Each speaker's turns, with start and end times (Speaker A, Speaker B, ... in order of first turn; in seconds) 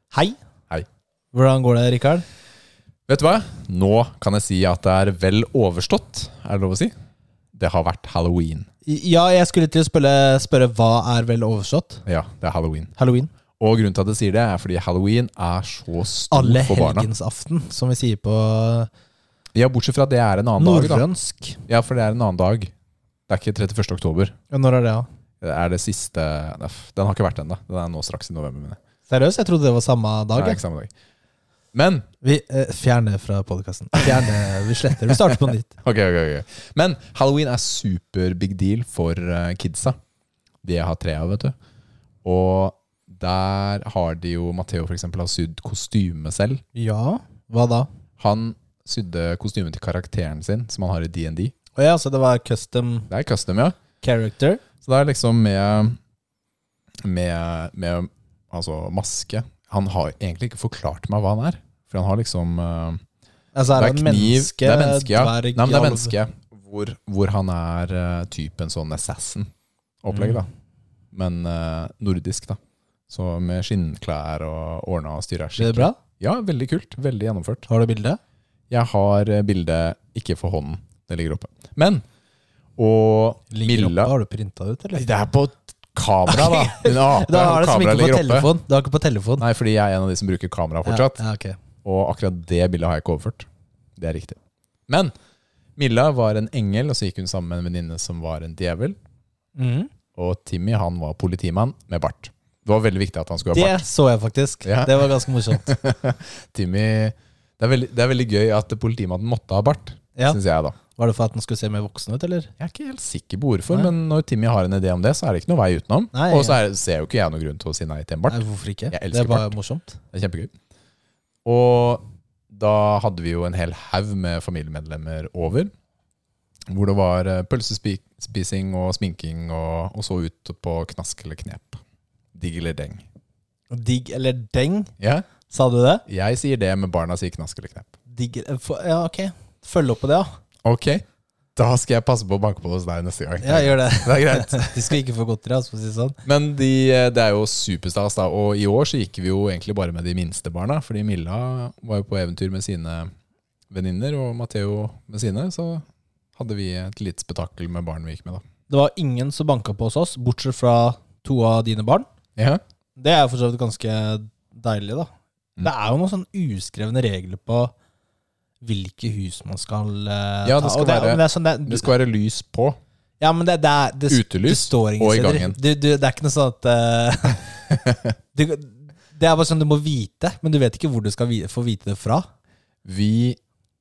Speaker A: 0.1-0.4, 1.3-2.3, 8.8-12.0, 13.0-13.3, 16.3-18.9, 20.6-21.6, 24.5-25.1, 29.1-30.6, 32.2-35.7, 46.7-47.9, 51.8-53.1, 54.0-54.6, 63.5-66.2, 70.1-70.5, 75.6-76.0, 77.7-78.2, 83.5-85.1, 86.3-89.4, 90.8-91.6, 99.6-99.9, 103.5-105.7, 110.9-112.5, 116.1-116.6, 118.3-120.0, 133.7-134.9, 135.5-136.0, 138.1-140.3, 143.4-146.2, 158.7-162.1, 163.0-167.7, 168.6-171.9, 173.2-177.6, 178.3-182.3
Speaker B: 3.1-6.9, 7.5-8.7, 12.1-12.9, 13.6-17.1, 19.6-21.1, 21.7-22.7, 23.3-24.4, 25.4-28.8, 30.4-30.9, 31.7-32.1, 35.8-40.0, 40.6-41.5, 42.2-46.6, 48.2-51.5, 53.1-53.8, 54.8-56.0, 57.0-63.0, 63.7-69.5, 70.0-70.5, 71.1-77.7, 78.7-82.0, 82.8-84.1, 84.9-88.5, 89.4-91.2, 91.8-95.1, 95.8-99.0, 100.1-103.8, 104.6-110.8, 112.6-119.5, 120.1-120.5, 121.4-125.7, 126.7-131.8, 132.3-133.0, 135.0-135.3, 136.1-137.9, 140.6-141.0, 141.6-144.9, 146.2-153.1, 153.7-155.8, 156.3-158.4, 162.3-162.6, 170.4-172.8, 174.1-175.6, 177.7-178.0, 182.8-183.4